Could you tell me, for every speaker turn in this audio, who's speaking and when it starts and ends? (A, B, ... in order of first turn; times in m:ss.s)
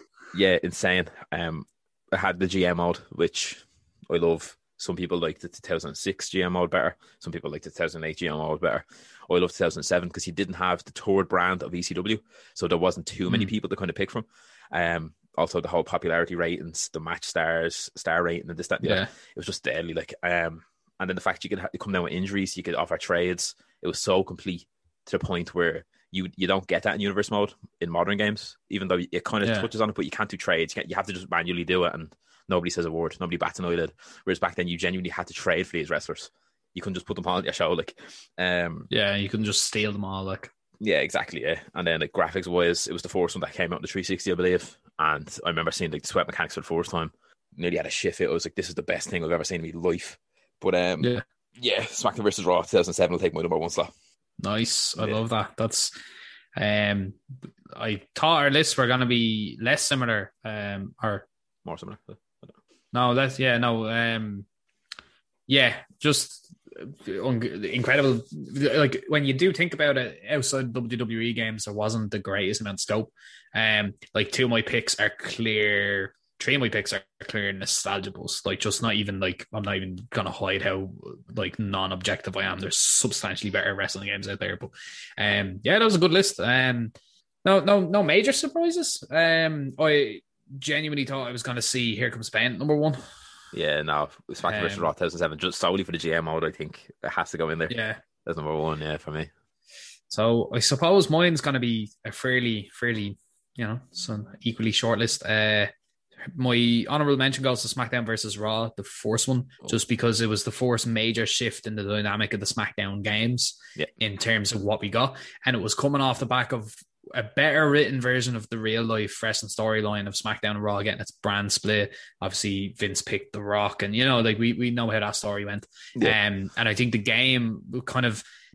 0:00.3-0:38.9 A
0:13.3-0:13.5 B
0:18.8-0:19.1 B
0:29.4-0:29.7 B
0:38.9-0:40.5 B
0:40.8-0:53.9 A
0:54.4-0:55.9 B
0:56.6-1:01.3 B
1:01.6-1:02.5 A
1:02.9-1:04.5 B
1:05.5-1:33.0 B
1:33.5-1:39.3 A
1:34.5-1:34.9 B
1:37.7-1:38.0 B
1:40.1-1:45.7 B
1:46.2-2:08.2 B